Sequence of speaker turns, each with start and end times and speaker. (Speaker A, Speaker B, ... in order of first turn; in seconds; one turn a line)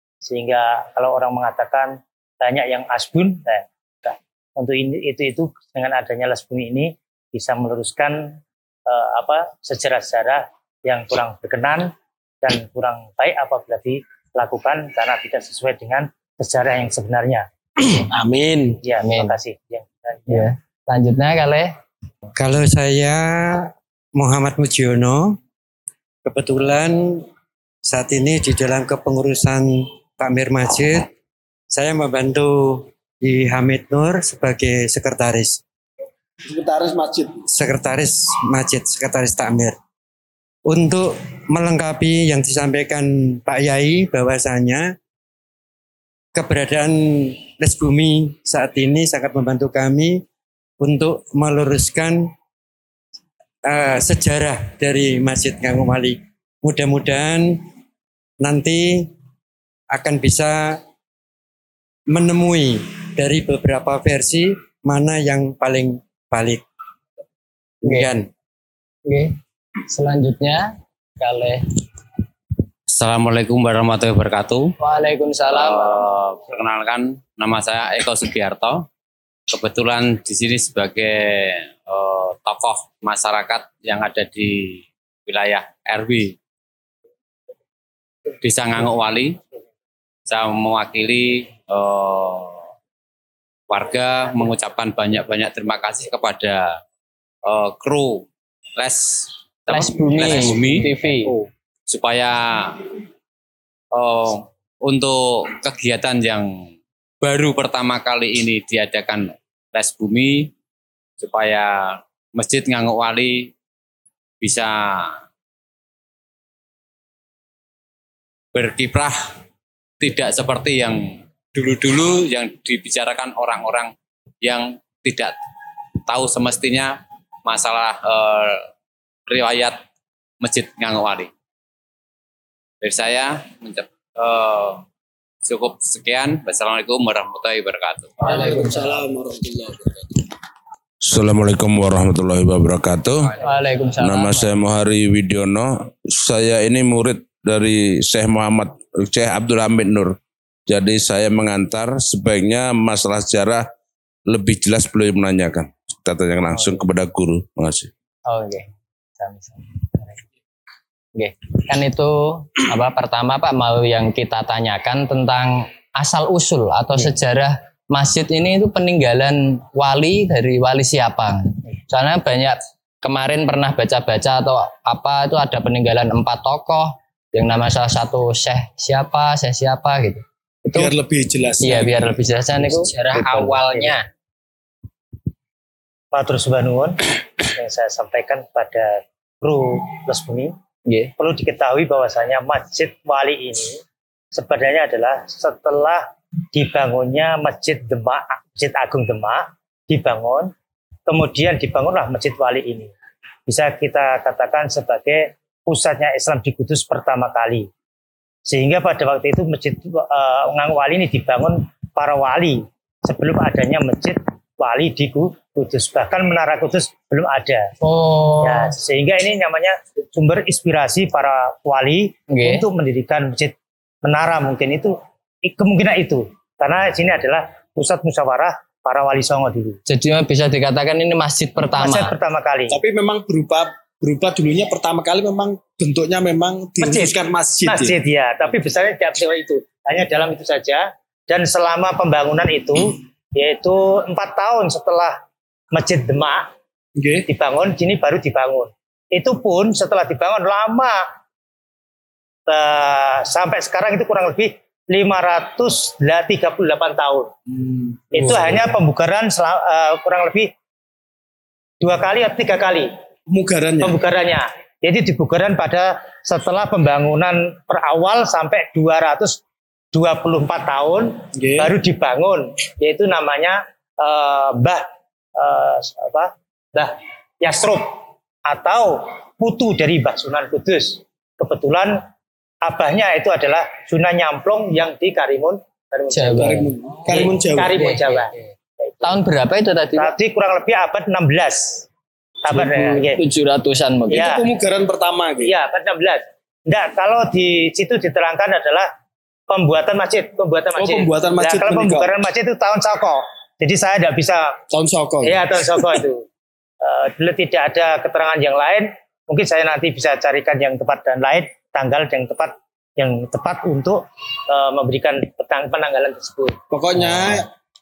Speaker A: 0.2-17.5
Speaker B: 18.1-18.8
Speaker A: 18.8-20.5
Speaker C: 19.0-19.4
Speaker C: 20.3-21.7
Speaker D: 22.4-25.4
Speaker D: 26.2-27.2
Speaker D: 27.8-31.1
Speaker D: 31.7-35.6
Speaker B: 36.4-37.3
Speaker D: 37.5-39.8
Speaker D: 40.6-44.9
Speaker D: 46.3-50.2
Speaker D: 50.8-52.3
Speaker D: 53.6-57.6
Speaker D: 58.4-59.1
Speaker D: 59.9-60.8
Speaker D: 62.1-66.6
Speaker D: 67.8-68.3
Speaker C: 67.8-68.1
Speaker C: 69.1-69.3
Speaker C: 69.9-71.6
Speaker E: 72.9-74.7
Speaker C: 74.8-76.0
Speaker E: 75.5-78.8
Speaker E: 79.5-86.3
Speaker E: 88.4-89.4
Speaker E: 90.3-92.7
Speaker E: 93.7-96.8
Speaker E: 97.4-100.9
Speaker C: 99.7-101.3
Speaker E: 101.9-102.9
Speaker E: 103.9-106.7
Speaker E: 107.2-110.5
Speaker E: 111.2-113.5
Speaker E: 114.4-115.2
Speaker E: 118.5-119.3
Speaker E: 120.0-121.0
Speaker E: 121.5-125.3
Speaker E: 126.0-128.7
Speaker E: 129.3-129.8
Speaker E: 130.4-131.3
Speaker E: 132.8-134.8
Speaker E: 135.4-138.1
Speaker B: 138.2-140.2
Speaker F: 141.1-143.3
Speaker C: 143.4-144.5
Speaker F: 144.0-150.2
Speaker F: 150.7-153.7
Speaker F: 154.3-157.9
Speaker C: 156.5-156.8
Speaker C: 158.3-158.7
Speaker C: 159.2-160.1
Speaker C: 161.2-180.9
Speaker B: 180.7-183.9
Speaker C: 181.6-184.1
Speaker A: 186.1-187.0
Speaker A: 187.5-190.5
Speaker C: 190.9-191.1
Speaker A: 191.2-193.8
Speaker A: 194.3-200.5
Speaker A: 201.1-202.9
Speaker A: 203.5-207.7
Speaker A: 208.4-217.7
Speaker C: 217.8-218.7
Speaker A: 218.4-229.8
Speaker C: 222.3-222.6
Speaker C: 229.9-232.1
Speaker A: 231.8-232.8
Speaker B: 232.7-237.9
Speaker A: 236.8-237.1
Speaker A: 237.6-245.2
Speaker A: 245.7-246.5
Speaker B: 247.0-247.2
Speaker A: 247.3-251.0
Speaker A: 252.5-257.3
Speaker B: 257.5-258.7
Speaker A: 258.1-260.5
Speaker A: 261.8-262.9
Speaker B: 263.3-264.0
Speaker A: 263.8-269.4
Speaker A: 269.9-282.0
Speaker B: 271.4-271.7
Speaker A: 282.6-286.5
Speaker C: 286.1-288.4
Speaker B: 286.3-287.8
Speaker A: 287.1-288.3
Speaker C: 289.0-290.1
Speaker A: 289.9-291.8
Speaker A: 292.4-293.2
Speaker C: 292.5-294.3
Speaker A: 294.1-294.4
Speaker B: 294.1-295.5
Speaker A: 295.4-298.9
Speaker A: 299.5-304.6
Speaker B: 300.8-302.1
Speaker B: 304.7-305.9
Speaker A: 305.2-306.2
Speaker A: 306.8-316.6
Speaker B: 316.7-317.5
Speaker C: 317.0-317.4